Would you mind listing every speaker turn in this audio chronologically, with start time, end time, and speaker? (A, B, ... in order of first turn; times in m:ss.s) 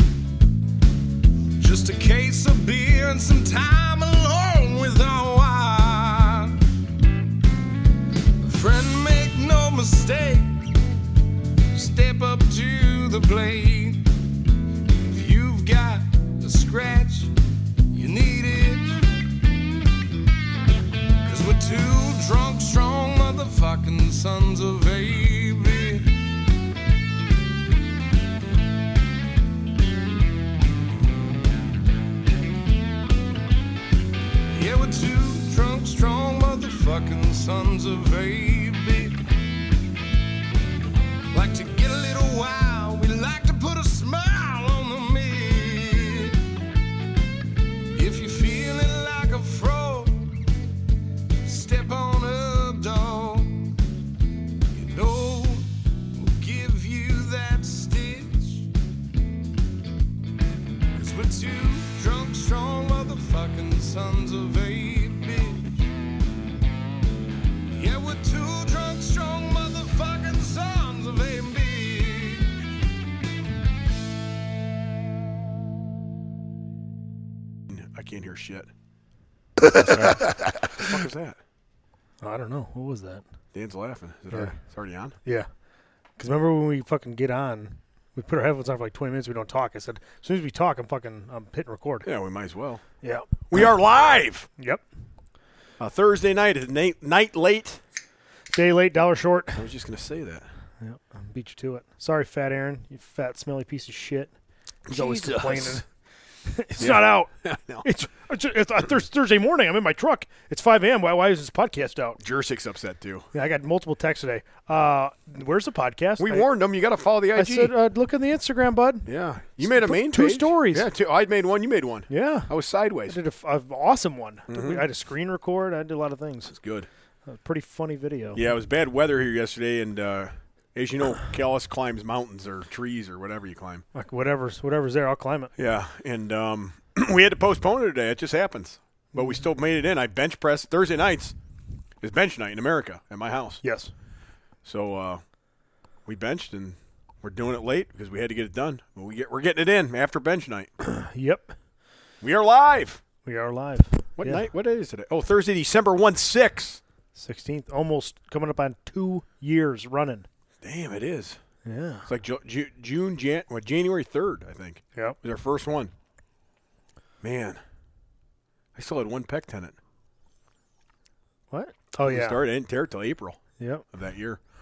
0:01.6-0:06.7 A
0:08.4-0:10.8 A
0:11.7-0:14.1 A
0:14.9-0:17.4 A
0:17.9-0:19.0 A
0:21.2-0:26.4 A
0:34.5-0:39.2 A
0:41.3-0:46.5 A
0:47.9-0:50.5 A
0:51.4-0:53.8 A
0:54.7-0:58.7 A
1:00.9-1:05.8 A
1:07.7-1:12.6 A
1:17.7-1:18.7 B
1:19.8-1:20.2 C
1:19.8-1:21.4 B
1:22.2-1:23.2 C
1:23.5-1:25.2 B
1:26.2-1:32.1 C
1:32.0-1:32.8 B
1:33.0-1:33.3 C
1:33.5-1:34.5 B
1:34.6-1:34.8 C
1:35.8-1:37.8 B
1:38.5-1:39.7 C
1:39.6-1:40.5 B
1:40.8-1:44.3 C
1:44.9-1:45.8 B
1:44.9-1:45.9 C
1:46.5-1:52.2 C
1:46.8-1:47.8 B
1:52.2-1:53.3 B
1:53.3-1:56.5 C
1:56.2-1:57.7 B
1:57.4-1:59.1 C
1:59.1-2:03.2 B
1:59.6-2:00.9 C
2:02.1-2:02.5 C
2:03.1-2:06.5 C
2:04.5-2:04.8 B
2:06.5-2:06.9 B
2:07.3-2:08.4 C
2:08.4-2:13.8 B
2:13.9-2:15.5 C
2:15.6-2:21.4 B
2:22.0-2:23.6 B
2:23.6-2:23.9 C
2:24.6-2:25.2 B
2:26.1-2:30.7 B
2:30.8-2:31.5 C
2:32.2-2:33.0 B
2:33.2-2:34.5 C
2:34.2-2:36.8 B
2:37.2-2:40.3 C
2:40.6-2:41.4 B
2:41.6-2:42.1 C
2:42.1-2:45.9 B
2:47.2-2:47.6 B
2:48.8-2:49.8 B
2:51.5-2:52.4 C
2:52.1-2:53.4 B
2:53.6-2:53.8 C
2:53.9-2:54.4 B